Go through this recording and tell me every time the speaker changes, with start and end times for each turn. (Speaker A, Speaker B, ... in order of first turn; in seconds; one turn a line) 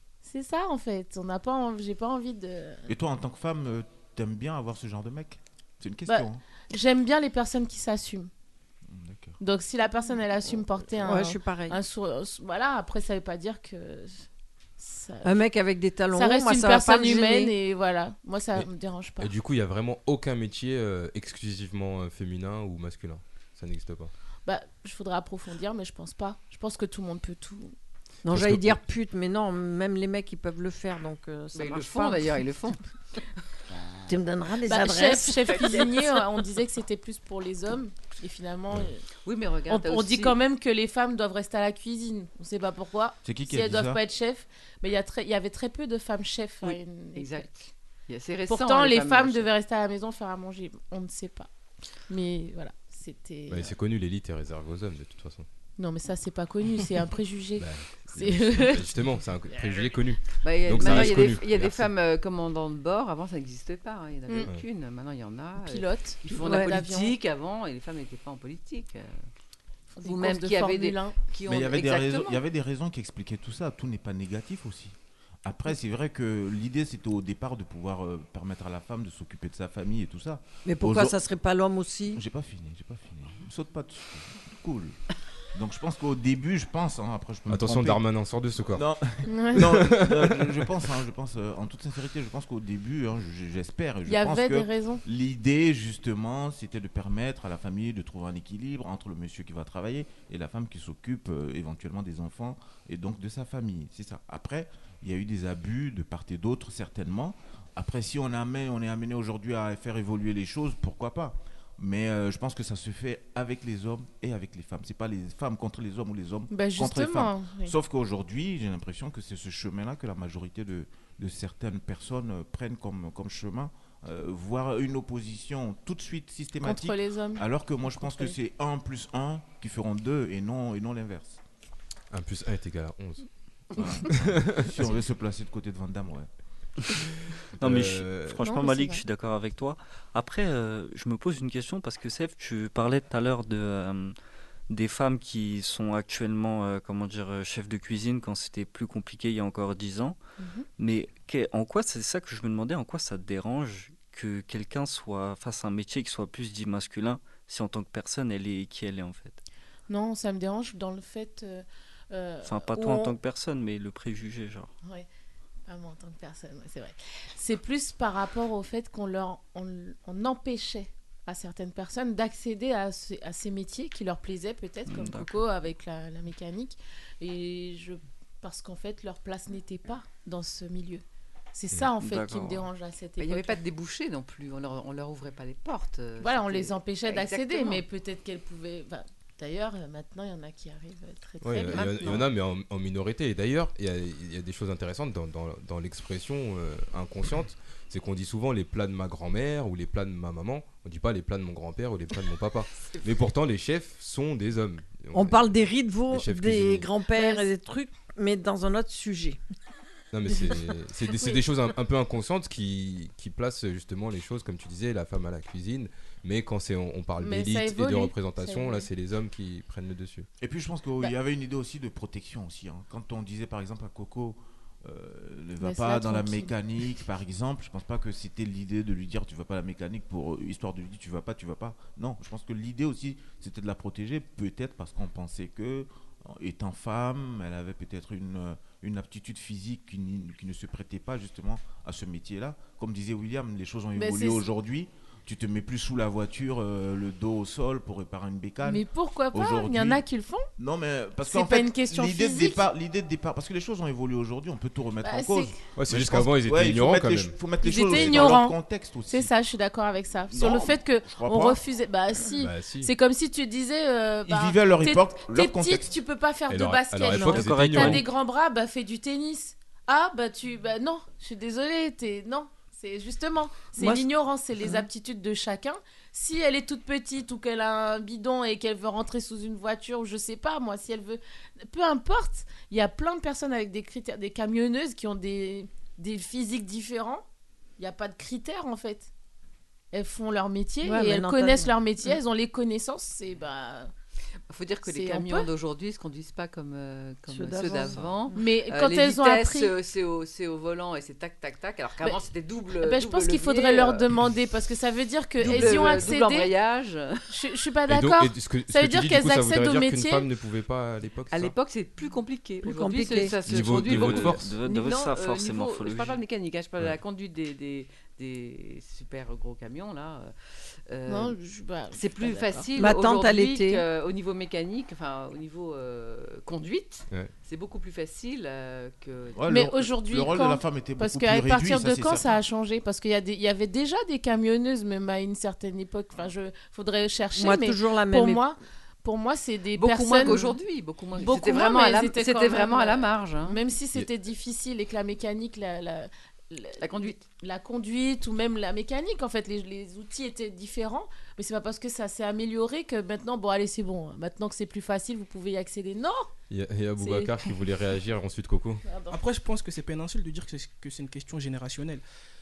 Speaker A: 0.2-2.9
Speaker B: 2.9-6.4
Speaker A: 6.1-8.3
Speaker B: 8.9-9.4
Speaker A: 9.4-14.2
Speaker C: 11.0-11.8
Speaker A: 14.8-15.4
Speaker C: 15.2-17.5
Speaker A: 16.1-19.3
Speaker D: 19.2-24.1
Speaker A: 24.4-27.7
Speaker C: 28.2-32.4
Speaker D: 28.3-28.8
Speaker E: 31.5-33.2
Speaker C: 34.0-35.8
Speaker A: 34.6-39.0
Speaker E: 35.5-36.1
Speaker E: 39.2-40.4
Speaker A: 39.7-47.5
Speaker B: 43.2-44.0
Speaker E: 46.6-49.5
Speaker A: 48.5-51.5
Speaker A: 52.1-53.8
Speaker D: 53.5-55.5
Speaker A: 55.8-58.8
Speaker D: 57.6-61.9
Speaker E: 60.4-69.2
Speaker A: 65.6-67.2
Speaker C: 66.4-66.7
Speaker A: 69.9-71.2
Speaker E: 70.0-72.4
Speaker B: 71.5-81.2
Speaker C: 80.6-82.2
Speaker B: 82.1-85.0
Speaker B: 85.5-88.0
Speaker D: 87.5-88.8
Speaker B: 88.7-131.4
Speaker A: 89.3-89.6
Speaker D: 89.5-90.6
Speaker A: 94.0-95.0
Speaker A: 116.5-117.7
Speaker A: 126.6-128.4
Speaker D: 132.1-134.9
Speaker B: 133.8-136.3
Speaker D: 137.6-138.4
Speaker F: 137.6-144.1
Speaker A: 138.4-139.0
Speaker F: 144.7-150.2
Speaker A: 150.4-150.7
Speaker F: 150.8-159.4
Speaker A: 159.9-163.1
Speaker F: 162.4-164.7
Speaker A: 165.7-181.0
Speaker F: 174.9-175.4
Speaker A: 181.5-183.6
Speaker F: 182.0-182.6
Speaker E: 183.2-187.8
Speaker A: 186.2-192.2
Speaker D: 191.4-205.5
Speaker E: 191.7-192.3
Speaker C: 205.1-209.4
Speaker D: 206.1-206.9
Speaker A: 207.1-207.5
Speaker D: 210.1-220.3
Speaker A: 217.2-218.8
Speaker B: 220.4-250.0
Speaker A: 225.6-226.5
Speaker A: 243.9-244.4
Speaker A: 248.6-250.5
Speaker B: 250.6-259.3
Speaker A: 251.2-252.7
Speaker A: 255.0-255.6
Speaker D: 255.7-258.4
Speaker A: 257.6-287.2
Speaker B: 260.3-261.6
Speaker D: 262.4-262.9
Speaker B: 264.2-265.9
Speaker D: 266.5-268.0
Speaker F: 267.2-268.0
Speaker C: 273.8-274.1
Speaker A: 287.8-289.1
Speaker A: 289.9-293.9
Speaker C: 290.8-292.1
Speaker E: 294.5-304.1
Speaker A: 294.9-295.5
Speaker C: 297.3-298.1
Speaker A: 298.3-299.7
Speaker A: 302.8-306.5
Speaker E: 305.4-307.3
Speaker A: 307.3-310.2
Speaker D: 307.9-311.5
Speaker E: 311.3-320.3
Speaker C: 312.6-313.4
Speaker D: 313.4-314.5
Speaker F: 313.6-316.2
Speaker E: 320.9-321.4
Speaker A: 321.1-322.7
Speaker E: 321.9-329.4
Speaker C: 322.8-323.8
Speaker B: 329.3-332.4
Speaker A: 329.5-340.5
Speaker C: 337.3-338.4
Speaker E: 339.7-343.6
Speaker A: 341.2-356.3
Speaker E: 346.8-347.2
Speaker D: 356.5-358.8
Speaker A: 357.0-357.3
Speaker A: 358.8-359.2
Speaker G: 359.1-362.0